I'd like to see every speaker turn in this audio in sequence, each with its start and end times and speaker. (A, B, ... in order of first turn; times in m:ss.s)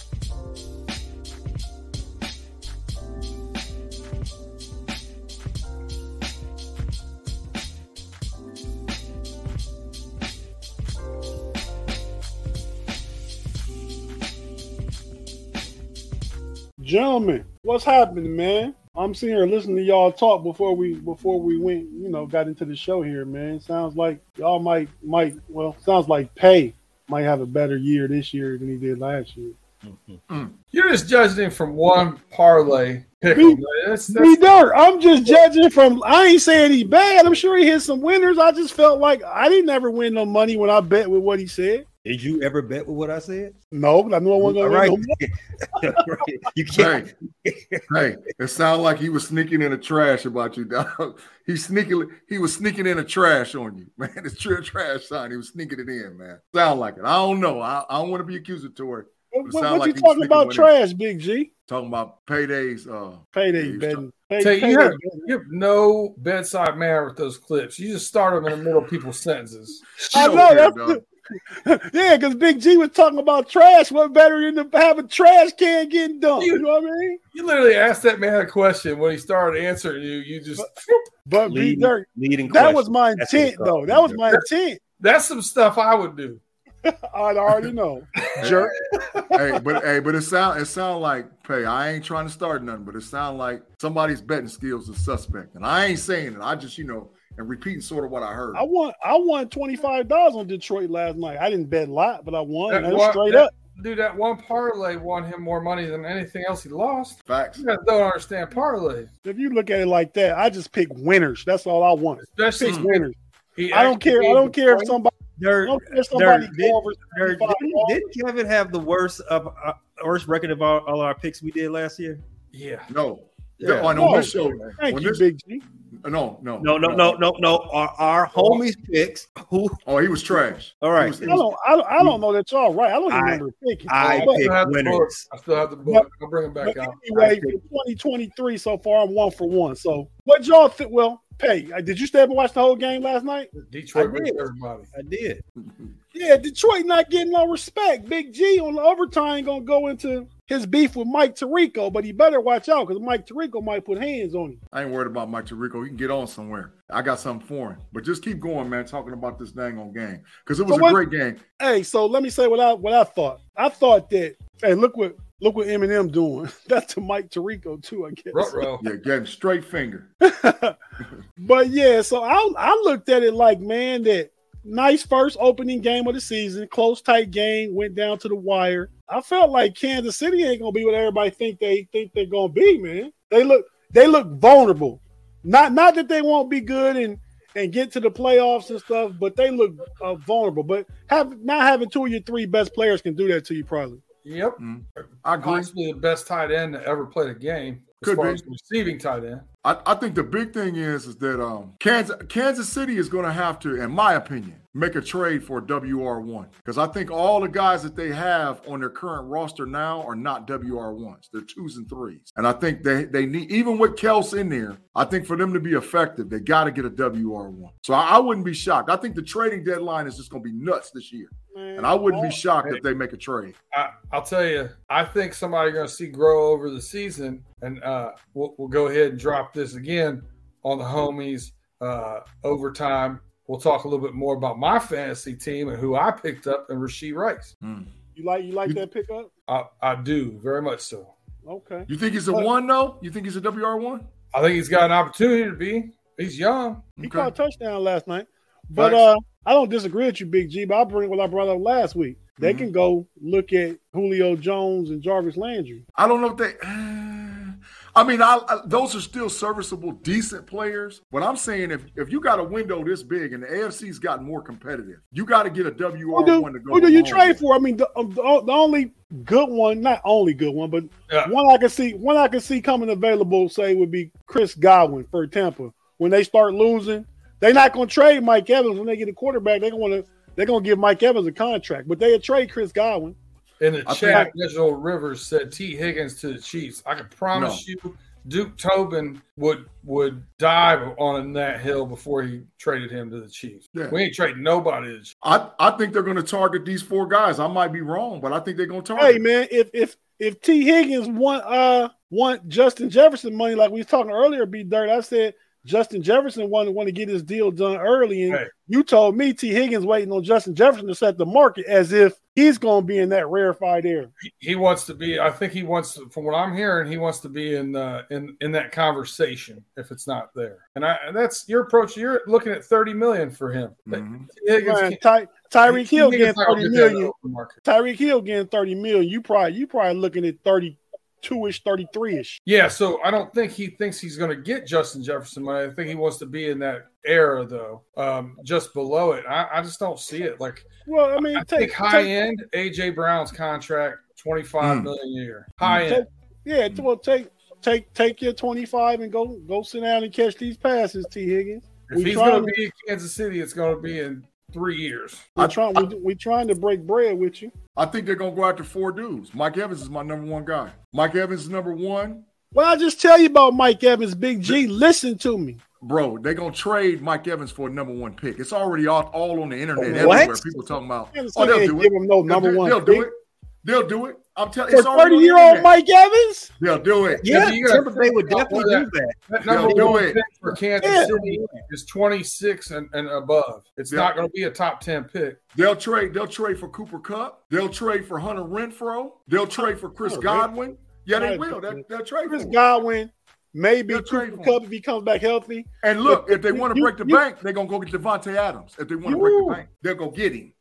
0:16.8-0:29.6 A
0:29.8-0:30.2 B
0:30.3-0:30.5 C
0:30.7-0:34.6 D
0:33.3-0:33.6 A
0:34.1-0:41.8 A
0:42.0-0:43.6 B
0:43.7-0:45.2 A
0:44.4-0:47.8 B
0:46.7-0:47.1 C
0:47.9-1:00.7 C
0:59.3-1:01.5 A
1:01.7-1:04.0 C
1:03.3-1:05.3 A
1:04.4-1:10.5 D
1:10.0-1:11.0 C
1:10.1-1:17.2 A
1:16.4-1:16.6 D
1:17.3-1:21.0 D
1:21.2-1:24.8 A
1:21.4-1:24.2 B
1:25.0-1:26.4 D
1:26.8-1:29.4 A
1:28.2-1:28.6 D
1:28.4-1:28.7 C
1:29.3-1:38.6 C
1:38.5-1:43.5 A
1:42.7-1:49.1 D
1:47.3-1:47.6 C
1:49.2-1:53.1 A
1:52.2-1:55.0 D
1:53.7-1:58.0 A
1:55.4-2:02.2 B
2:02.5-2:02.9 D
2:02.9-2:05.2 C
2:03.6-2:04.4 B
2:03.9-2:05.6 A
2:06.0-2:07.2 C
2:06.6-2:09.8 B
2:08.4-2:08.6 D
2:09.8-2:11.4 C
2:10.8-2:11.4 B
2:11.2-2:14.5 A
2:13.1-2:15.2 B
2:14.1-2:17.0 D
2:16.6-2:23.5 A
2:17.1-2:17.6 B
2:23.5-2:24.9 D
2:23.9-2:24.4 B
2:24.9-2:25.4 B
2:25.6-2:25.9 C
2:26.1-2:34.6 A
2:34.7-2:41.4 C
2:40.7-2:41.0 A
2:41.6-2:48.6 A
2:48.3-2:48.8 D
2:48.8-2:50.1 C
2:50.2-2:50.8 A
2:51.4-3:14.0 A
3:14.2-3:14.6 D
3:14.6-3:15.7 C
3:15.4-3:19.4 D
3:18.0-3:18.4 C
3:19.6-3:43.6 C
3:41.5-3:42.4 A
3:43.7-3:57.5 D
3:57.6-3:57.9 C
3:58.2-3:59.3 A
3:59.5-4:01.1 D
4:01.4-4:02.5 A
4:01.9-4:04.0 C
4:04.3-4:06.8 D
4:07.0-4:07.3 C
4:07.0-4:15.8 A
4:08.8-4:09.0 C
4:12.4-4:12.7 C
4:15.9-4:27.4 C
4:26.1-4:43.2 A
4:43.6-4:55.1 D
4:43.8-4:44.3 C
4:47.3-4:47.6 C
4:55.2-4:59.2 C
4:59.0-5:14.1 A
5:14.2-5:25.0 D
5:23.9-5:24.3 C
5:24.6-5:27.1 A
5:25.6-5:27.6 D
5:27.6-5:32.4 A
5:32.4-5:40.7 D
5:40.8-5:42.1 A
5:41.2-5:46.0 D
5:44.6-5:44.9 C
5:45.6-5:45.9 C
5:45.8-5:52.5 A
5:51.9-5:55.3 D
5:55.4-5:57.5 A
5:55.4-5:55.9 C
5:57.8-6:02.2 C
6:02.5-6:05.6 A
6:05.8-6:15.7 C
6:09.8-6:10.6 B
6:09.8-6:10.3 A
6:11.1-6:13.1 A
6:14.7-6:16.5 A
6:16.6-6:17.3 C
6:17.1-6:20.0 B
6:17.2-6:25.4 D
6:19.4-6:20.2 C
6:20.8-6:21.3 A
6:20.8-6:21.5 B
6:25.5-6:32.6 C
6:30.0-6:30.5 A
6:31.1-6:37.2 A
6:33.9-6:34.6 C
6:35.8-6:40.5 C
6:39.0-6:39.6 A